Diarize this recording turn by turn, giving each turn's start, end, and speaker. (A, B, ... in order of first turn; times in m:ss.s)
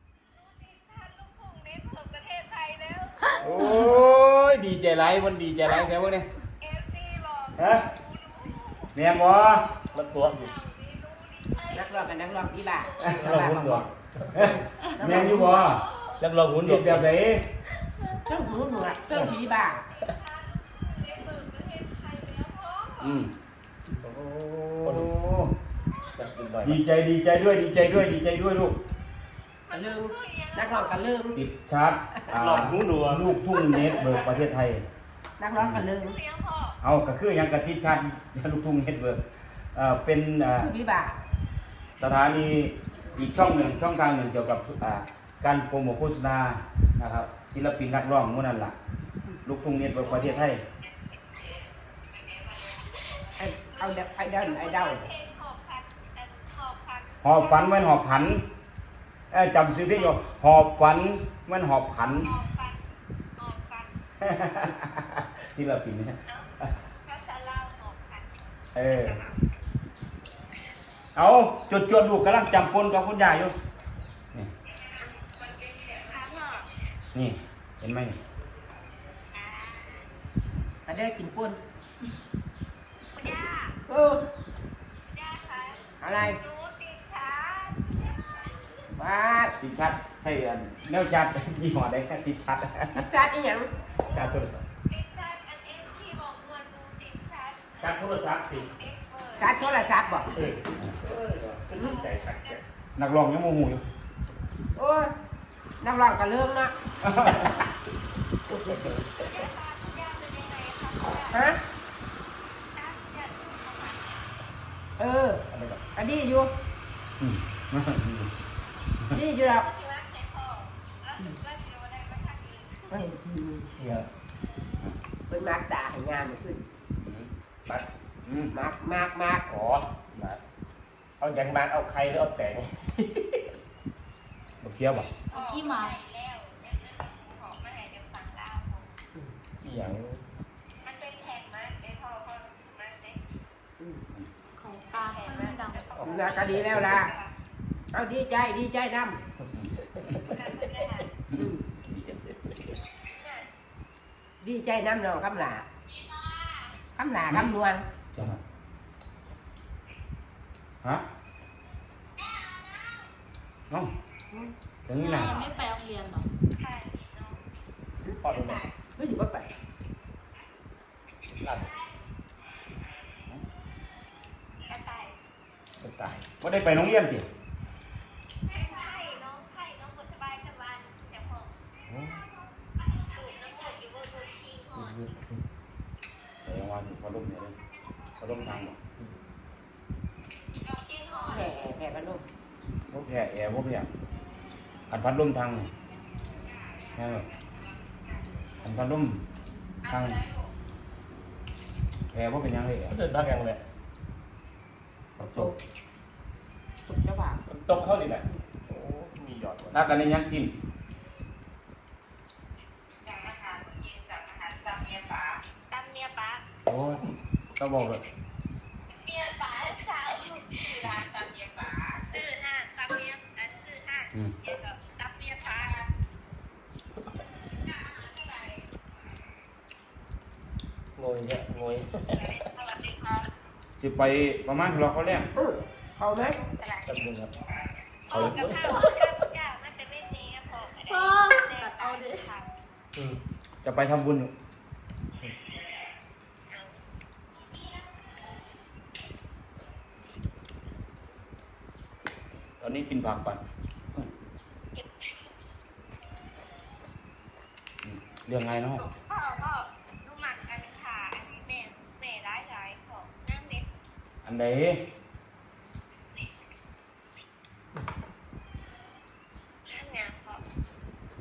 0:00.3-0:03.3 A
0:03.4-0:06.3 B
0:06.6-0:13.2 A
0:07.6-0:07.9 B
0:08.9-0:09.7 B
0:09.9-0:10.5 C
0:11.7-0:15.8 D
0:13.1-0:14.6 C
0:14.3-0:15.8 B
0:15.6-0:16.2 A
0:16.2-0:17.1 C
0:16.6-0:17.5 B
0:18.3-0:19.8 D
0:18.6-0:23.2 A
0:19.1-0:19.4 C
0:23.0-0:23.3 B
0:24.0-0:25.5 B
0:24.8-0:25.1 C
0:26.1-0:26.8 C
0:26.6-0:28.8 B
0:29.7-0:31.0 A
0:29.7-0:31.4 D
0:31.3-0:34.8 B
0:32.3-0:33.3 C
0:35.4-0:36.2 D
0:35.6-0:35.8 B
0:36.0-0:36.8 A
0:36.8-0:39.2 B
0:39.7-0:40.7 B
0:40.6-0:41.2 D
0:42.0-0:48.8 B
0:49.4-0:50.6 B
0:51.1-0:58.2 A
0:53.4-0:55.1 D
0:57.2-0:58.4 B
0:59.3-1:02.3 B
0:59.9-1:00.2 A
1:02.0-1:02.8 A
1:03.4-1:03.9 A
1:04.2-1:06.2 B
1:06.3-1:06.5 A
1:07.0-1:08.2 A
1:08.8-1:09.2 B
1:08.8-1:09.4 A
1:11.2-1:13.5 B
1:15.0-1:16.7 A
1:17.1-1:18.2 B
1:19.3-1:20.1 A
1:20.9-1:21.6 D
1:23.2-1:23.8 A
1:23.9-1:24.2 D
1:25.1-1:28.8 A
1:26.0-1:26.4 D
1:29.0-1:29.6 D
1:29.6-1:33.1 B
1:32.9-1:33.7 D
1:34.1-1:34.6 B
1:34.9-1:38.0 A
1:37.8-1:38.7 C
1:38.5-1:39.8 A
1:39.4-1:40.3 D
1:40.3-1:42.6 C
1:41.8-1:42.1 D
1:42.2-1:42.6 A
1:43.0-1:43.8 B
1:44.8-1:45.1 D
1:45.8-1:46.7 D
1:47.0-1:47.6 B
1:47.3-1:47.6 C
1:48.5-1:48.9 D
1:48.5-1:49.3 C
1:49.3-1:51.4 A
1:51.3-1:51.6 D
1:52.8-1:54.2 A
1:55.0-1:55.4 D
1:55.5-1:55.8 C
1:56.0-1:56.5 D
1:57.2-1:58.3 B
1:59.1-1:59.7 D
1:59.4-2:02.9 A
2:02.9-2:03.7 D
2:03.8-2:04.1 C
2:05.3-2:06.6 D
2:07.0-2:07.3 B
2:08.2-2:08.6 B
2:08.5-2:09.4 D
2:09.5-2:10.4 C
2:11.2-2:13.5 C
2:14.6-2:15.1 B
2:15.0-2:18.9 A
2:15.3-2:16.0 E
2:19.6-2:20.2 C
2:20.8-2:23.2 A
2:23.8-2:24.0 D
2:24.5-2:26.0 E
2:25.0-2:27.3 A
2:26.0-2:27.1 C
2:26.0-2:27.2 D
2:27.9-2:29.2 D
2:29.4-2:31.1 C
2:29.5-2:30.2 B
2:30.2-2:31.1 A
2:31.3-2:32.4 B
2:31.4-2:31.7 D
2:33.1-2:33.5 A
2:34.4-2:35.7 D
2:35.9-2:36.8 A
2:37.0-2:37.9 D
2:37.3-2:37.5 B
2:38.1-2:38.4 B
2:42.2-2:43.1 A
2:44.9-2:45.5 B
2:45.0-2:46.3 E
2:45.0-2:45.4 A
2:46.6-2:47.4 A
2:48.1-2:48.7 C
2:48.1-2:49.5 D
2:51.4-2:51.7 C
2:51.4-2:51.8 A
2:54.6-2:55.2 A
2:55.8-2:56.2 C
2:56.4-2:57.3 B
2:58.5-3:01.5 A
3:02.8-3:05.0 A
3:04.8-3:05.3 C
3:06.4-3:07.6 B
3:08.2-3:08.8 B
3:10.6-3:11.5 A
3:11.1-3:12.2 D
3:12.9-3:13.9 B
3:14.9-3:15.7 B
3:16.6-3:17.9 A
3:17.0-3:17.3 B
3:18.6-3:19.2 B
3:19.8-3:20.5 A
3:19.8-3:20.2 B
3:22.1-3:23.0 B
3:22.9-3:23.6 C
3:25.2-3:25.6 D
3:26.8-3:27.4 D
3:27.5-3:30.0 C
3:29.7-3:30.5 B
3:33.0-3:36.4 A
3:36.7-3:37.0 B
3:37.6-3:38.0 B
3:39.0-3:45.9 A
3:47.8-3:48.6 A
3:50.9-3:52.4 C
3:52.2-3:53.3 A
3:53.8-3:55.3 B
3:55.3-3:56.4 D
3:56.3-3:56.9 A
3:56.9-3:57.3 C
3:58.1-4:02.4 A
3:58.1-3:58.9 C
3:58.6-3:59.1 E
4:00.9-4:02.3 E
4:02.9-4:03.2 C
4:03.6-4:04.3 B
4:12.6-4:14.1 B
4:14.8-4:15.1 A
4:17.8-4:18.9 B
4:18.8-4:23.6 A
4:24.2-4:24.8 B
4:29.7-4:30.4 A